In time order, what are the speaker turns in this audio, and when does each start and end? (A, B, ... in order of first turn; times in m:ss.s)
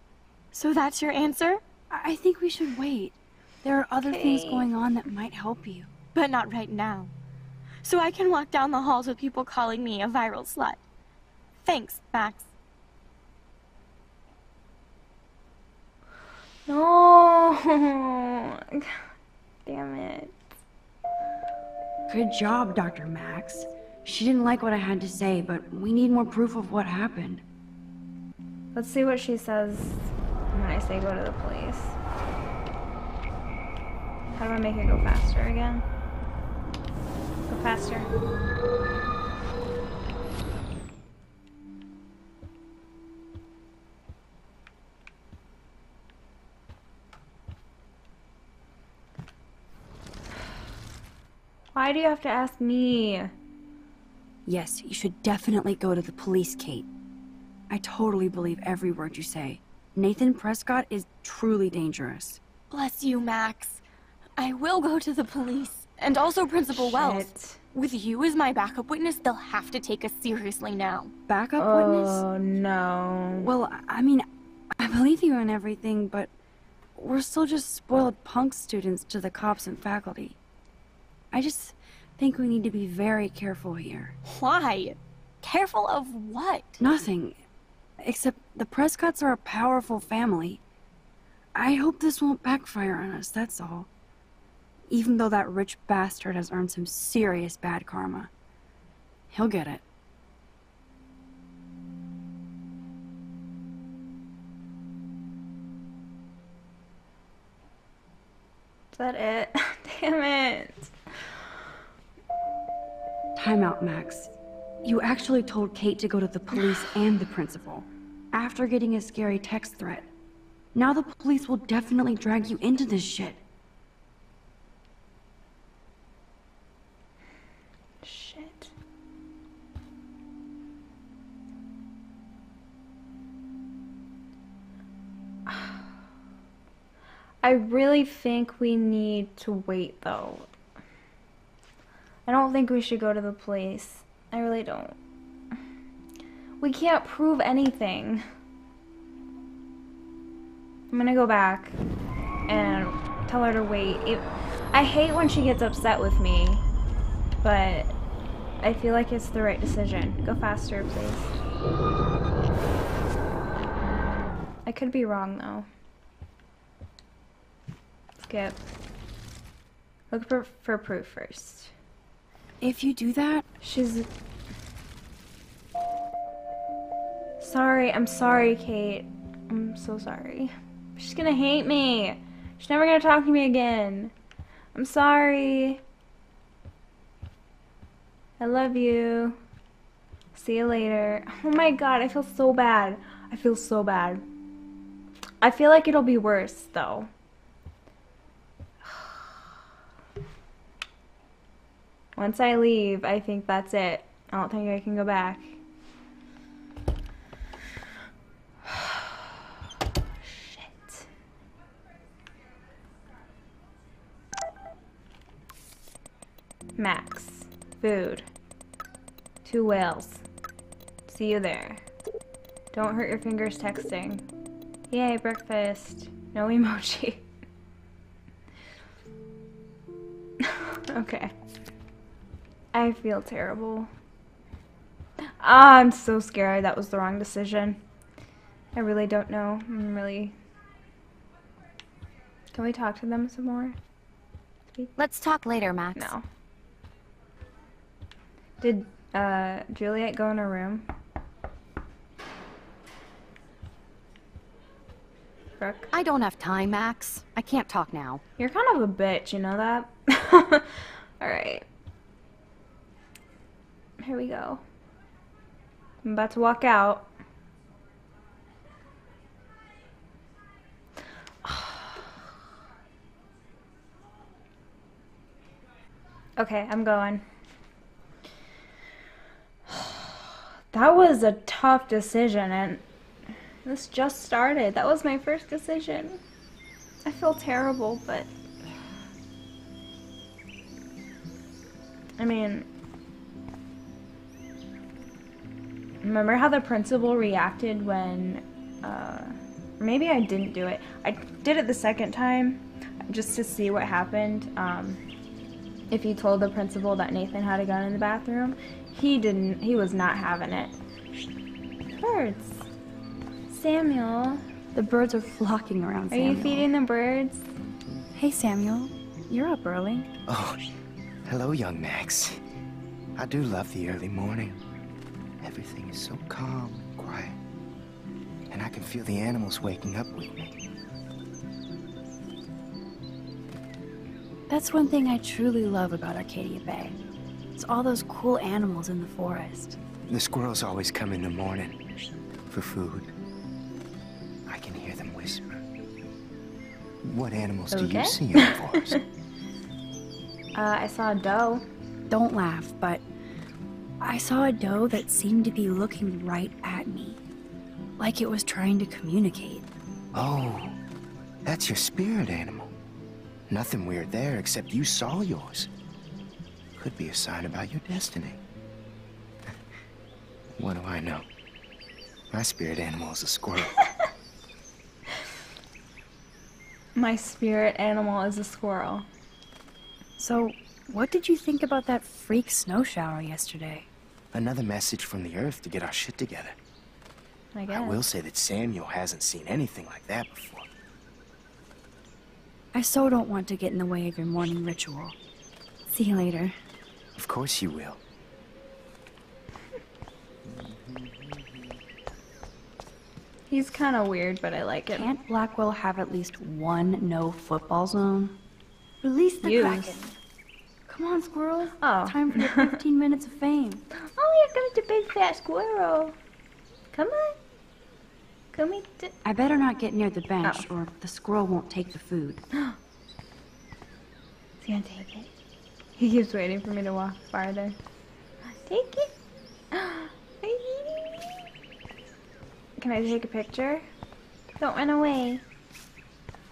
0:00.5-0:01.6 A
0:01.9-0:05.9 B
0:06.1-0:07.1 A
0:07.8-0:10.8 A
0:11.6-0:12.5 A
0:16.7-0:19.0 C
0:19.6-0:20.4 C
0:22.1-0:27.4 B
0:28.7-0:32.0 C
0:34.4-0:35.8 C
0:37.5-0:38.1 C
0:51.7-0:53.3 C
0:54.4-0:56.9 B
0:57.7-1:02.4 B
1:02.7-1:03.8 A
1:04.4-1:11.1 A
1:06.7-1:07.6 C
1:11.3-1:12.2 B
1:11.6-1:13.5 C
1:13.4-1:16.3 B
1:17.0-1:20.4 B
1:21.3-1:24.1 B
1:24.2-1:26.8 A
1:26.8-1:27.4 B
1:28.0-1:30.6 B
1:31.5-1:33.9 B
1:34.9-1:38.3 B
1:39.3-1:39.8 B
1:48.9-1:50.9 C
1:53.4-1:54.3 B
1:54.8-2:00.1 B
2:00.7-2:03.4 B
2:08.0-2:08.7 C
2:15.5-2:15.8 C
2:17.4-2:20.5 C
2:22.2-2:25.0 C
2:26.6-2:28.2 C
2:30.9-2:31.8 C
2:32.5-2:36.6 C
2:37.4-2:38.0 C
2:38.6-2:41.4 C
2:44.6-2:45.7 C
2:48.2-2:48.6 C
2:50.1-2:51.7 C
2:52.6-2:53.4 B
2:53.6-2:54.1 C
2:57.4-3:04.1 C
3:04.7-3:05.8 C
3:08.4-3:09.4 C
3:10.3-3:14.2 C
3:15.4-3:17.1 C
3:18.8-3:19.3 C
3:22.2-3:25.6 C
3:28.6-3:29.3 C
3:30.2-3:31.0 C
3:36.8-3:38.2 C
3:39.4-3:40.2 C
3:41.1-3:41.8 C
3:42.7-3:44.3 C
3:44.9-3:47.3 C
3:50.4-3:51.3 C
3:52.7-3:53.9 C
3:55.3-3:57.8 C
3:58.7-4:00.4 C
4:02.5-4:03.8 C
4:05.0-4:06.1 D
4:05.9-4:06.2 C
4:08.6-4:10.8 C
4:15.6-4:15.9 C
4:15.9-4:18.2 D
4:18.4-4:21.6 C
4:24.0-4:24.6 C
4:26.0-4:27.1 C
4:31.4-4:32.1 C
4:36.4-4:37.2 C
4:39.7-4:42.8 C
4:43.6-4:46.2 C
4:47.0-4:48.3 C
4:52.2-4:52.7 C
4:56.0-5:05.0 C
5:05.9-5:10.7 C
5:12.0-5:12.7 C
5:13.5-5:14.4 C
5:14.7-5:16.7 B
5:16.1-5:17.5 C
5:18.1-5:20.1 B
5:20.3-5:20.6 E
5:21.2-5:22.4 E
5:23.2-5:24.6 E
5:25.4-5:27.4 E
5:28.5-5:30.6 E
5:34.5-5:37.0 B
5:37.5-5:39.8 B
5:40.1-5:41.9 E
5:42.5-5:43.1 E
5:44.4-5:45.6 E
5:47.0-5:49.0 E
5:47.7-5:49.0 C
5:50.5-5:51.6 C
5:52.1-5:53.0 B
5:54.0-5:57.2 B
5:58.0-5:59.7 B
6:00.1-6:00.8 E
6:01.4-6:02.7 E
6:03.5-6:05.7 E
6:06.8-6:08.4 E
6:10.6-6:11.3 E
6:12.3-6:13.9 E
6:17.0-6:19.1 C
6:20.2-6:23.9 B
6:24.3-6:26.6 E
6:27.5-6:28.0 C
6:27.7-6:30.7 E
6:32.7-6:35.2 B
6:35.8-6:36.5 B
6:37.1-6:38.0 E
6:43.5-6:45.1 C
6:44.9-6:48.4 B
6:49.0-6:50.0 B
6:49.4-6:50.1 C
6:50.9-6:53.8 B
6:51.8-6:52.7 C
6:53.9-6:56.2 C
6:56.9-6:57.4 C
6:58.5-6:59.1 C
6:59.2-7:02.4 B
7:00.4-7:00.7 C
7:04.6-7:05.3 C
7:06.0-7:07.8 C
7:08.5-7:09.1 C
7:09.7-7:11.4 C
7:12.8-7:13.8 C
7:14.6-7:15.4 C